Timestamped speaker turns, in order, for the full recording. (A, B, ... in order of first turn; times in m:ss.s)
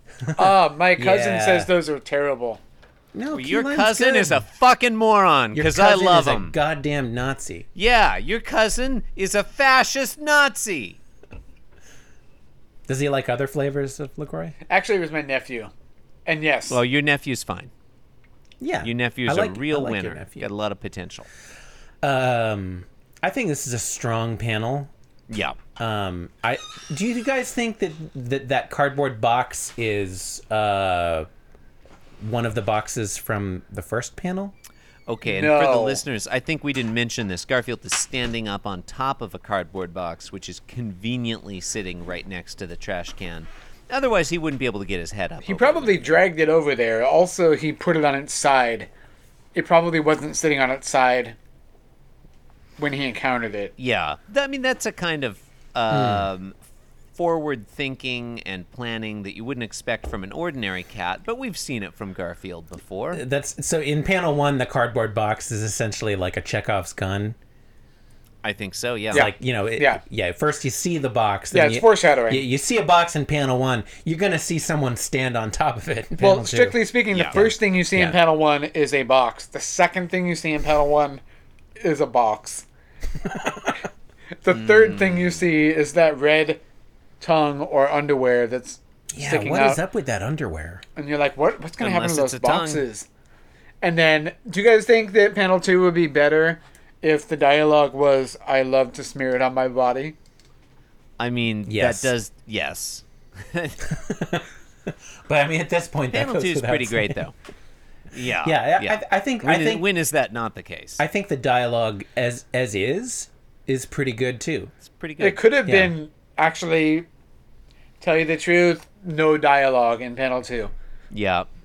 0:00.2-0:01.7 A
0:00.4-0:02.6 B
0:03.1-0:04.4 A
0:03.3-0:06.6 C
0:05.5-0:07.7 A
0:07.7-0:11.0 C
0:12.9-0:14.6 A
0:14.6-0:15.7 B
0:16.2-0:16.8 B
0:16.7-0:17.7 C
0:18.6-0:20.5 A
0:18.8-0:21.3 C
0:22.0-0:24.9 A
0:25.3-0:25.6 C
0:25.8-0:31.3 A
0:32.2-0:34.5 A
0:35.1-0:46.2 C
0:35.2-0:36.0 B
0:45.4-0:48.9 B
0:49.5-0:51.4 B
0:52.8-0:53.7 B
0:53.8-0:56.6 C
0:55.9-0:56.3 A
0:57.1-1:03.2 C
1:03.1-1:07.4 A
1:08.4-1:09.3 C
1:09.1-1:10.0 B
1:09.1-1:18.2 A
1:11.5-1:12.4 B
1:16.2-1:21.2 B
1:17.1-1:17.4 C
1:21.8-1:22.6 B
1:24.4-1:26.6 B
1:24.5-1:25.5 C
1:27.2-1:29.8 B
1:29.1-1:30.8 A
1:31.0-1:33.1 B
1:31.8-1:32.8 C
1:33.8-1:40.2 B
1:41.2-1:43.8 C
1:41.7-1:42.1 A
1:43.8-1:47.2 A
1:46.1-1:47.4 C
1:48.1-1:51.0 C
1:48.4-1:49.9 A
1:51.0-1:54.7 A
1:54.8-1:55.4 C
1:55.2-1:57.1 B
1:55.6-1:56.0 A
1:58.0-2:00.7 B
2:01.1-2:01.5 C